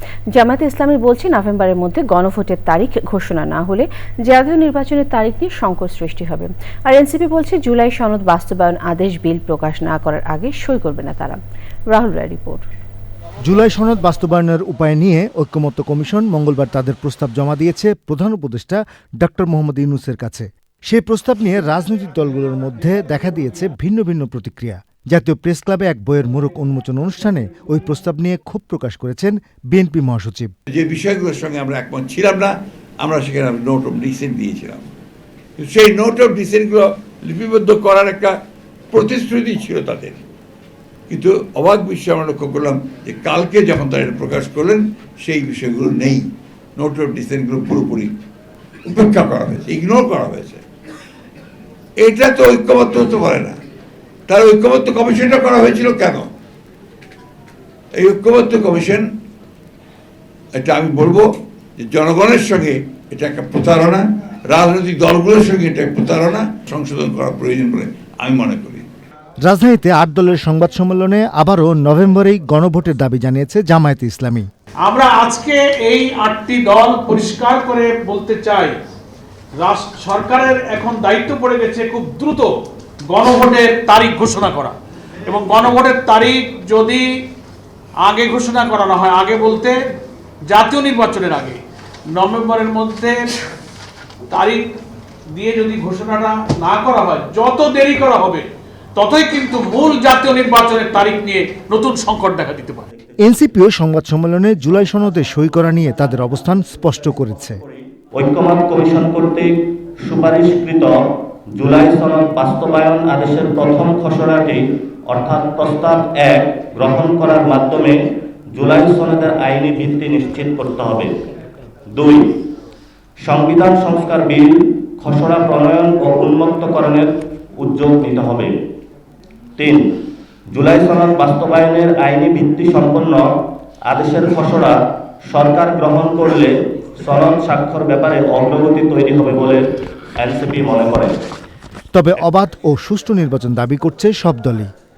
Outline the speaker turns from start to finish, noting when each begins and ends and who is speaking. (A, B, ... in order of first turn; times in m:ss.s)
0:00.4-0:11.4 A
0:11.9-0:12.7 A
0:13.5-0:30.5 B
0:30.7-0:34.8 C
0:35.6-0:38.4 C
0:38.9-0:40.2 C
0:41.1-0:46.2 C
0:46.8-0:48.1 C
0:48.9-0:50.6 C
0:52.0-0:53.6 C
0:54.3-0:56.3 C
0:58.0-0:59.0 C
1:00.6-1:08.9 C
1:09.4-1:14.5 B
1:14.8-1:18.8 D
1:19.6-1:22.5 D
1:23.1-1:24.8 D
1:25.3-1:27.0 D
1:28.0-1:29.8 D
1:30.5-1:31.6 D
1:32.1-1:33.3 D
1:34.3-1:34.6 D
1:35.4-1:38.4 D
1:39.0-1:42.9 D
1:43.2-1:47.6 B
1:48.2-1:51.0 E
1:51.6-1:58.0 E
1:58.5-2:01.1 E
2:01.9-2:02.3 E
2:03.2-2:08.5 E
2:09.6-2:09.8 E
2:10.5-2:13.2 E
2:13.9-2:14.8 E
2:15.3-2:19.6 E
2:20.2-2:21.1 E
2:21.9-2:24.7 B